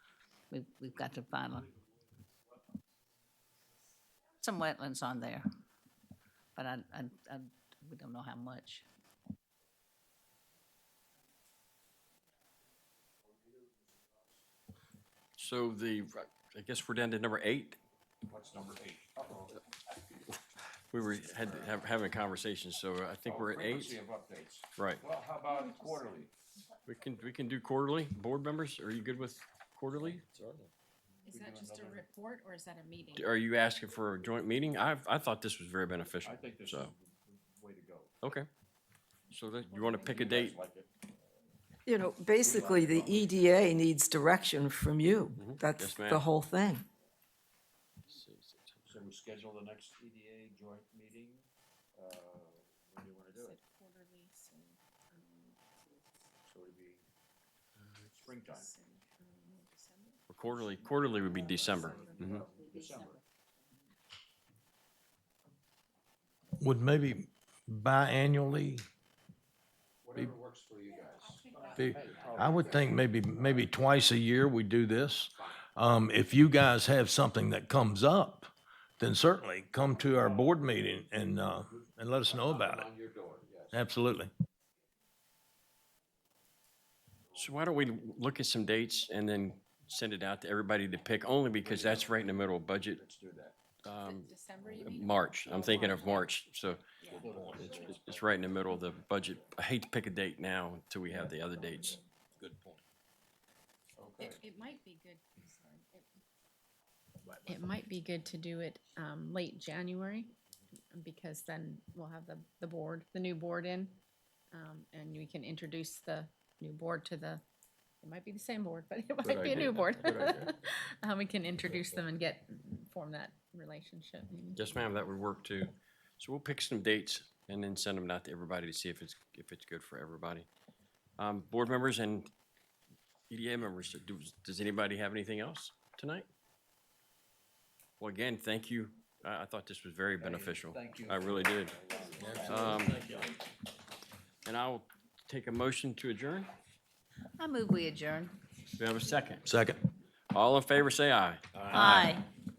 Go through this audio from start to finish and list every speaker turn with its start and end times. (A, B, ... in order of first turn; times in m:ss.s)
0:00.5-0:01.7 A
0:04.4-0:05.5 A
0:06.6-0:08.9 A
0:15.4-0:17.8 B
0:18.3-0:19.6 C
0:20.9-0:24.0 B
0:21.3-0:21.8 C
0:23.2-0:26.3 C
0:24.8-0:25.0 B
0:26.9-0:30.6 B
0:31.2-0:33.3 D
0:31.3-0:32.1 C
0:33.1-0:36.9 B
0:36.2-0:38.1 C
0:38.2-0:38.5 B
0:39.3-0:40.6 B
0:39.6-0:41.4 C
0:41.9-0:46.8 E
0:42.4-0:43.7 C
0:45.3-0:46.3 B
0:48.1-0:48.8 B
0:48.8-0:53.6 C
0:53.4-0:56.1 D
0:56.4-0:57.0 C
0:58.1-0:58.7 C
0:58.2-1:03.8 D
1:00.3-1:02.4 B
1:01.6-1:03.2 C
1:06.6-1:08.8 F
1:10.0-1:13.7 C
1:10.9-1:13.0 D
1:11.8-1:22.9 F
1:22.3-1:23.8 C
1:23.7-1:24.3 F
1:27.4-1:33.0 B
1:31.6-1:32.3 C
1:33.0-1:33.6 C
1:33.8-1:36.8 B
1:34.0-1:36.3 D
1:37.0-1:38.0 D
1:37.1-1:38.6 C
1:37.6-1:42.0 B
1:41.3-1:41.8 C
1:42.4-1:42.8 C
1:44.0-1:44.4 C
1:44.2-1:46.1 D
1:47.4-1:50.3 D
1:50.9-1:54.0 D
1:54.5-1:57.4 D
1:58.0-2:04.6 D
1:59.2-2:00.5 B
2:01.7-2:02.0 B
2:04.6-2:10.5 B
2:11.2-2:12.3 B
2:13.3-2:16.3 B
2:18.0-2:23.2 B
2:20.2-2:23.4 C
2:24.4-2:26.5 B
2:27.4-2:28.4 A
2:28.8-2:29.5 B
2:29.4-2:29.8 F
2:30.3-2:32.2 B
2:31.6-2:31.9 C
2:31.7-2:32.3 A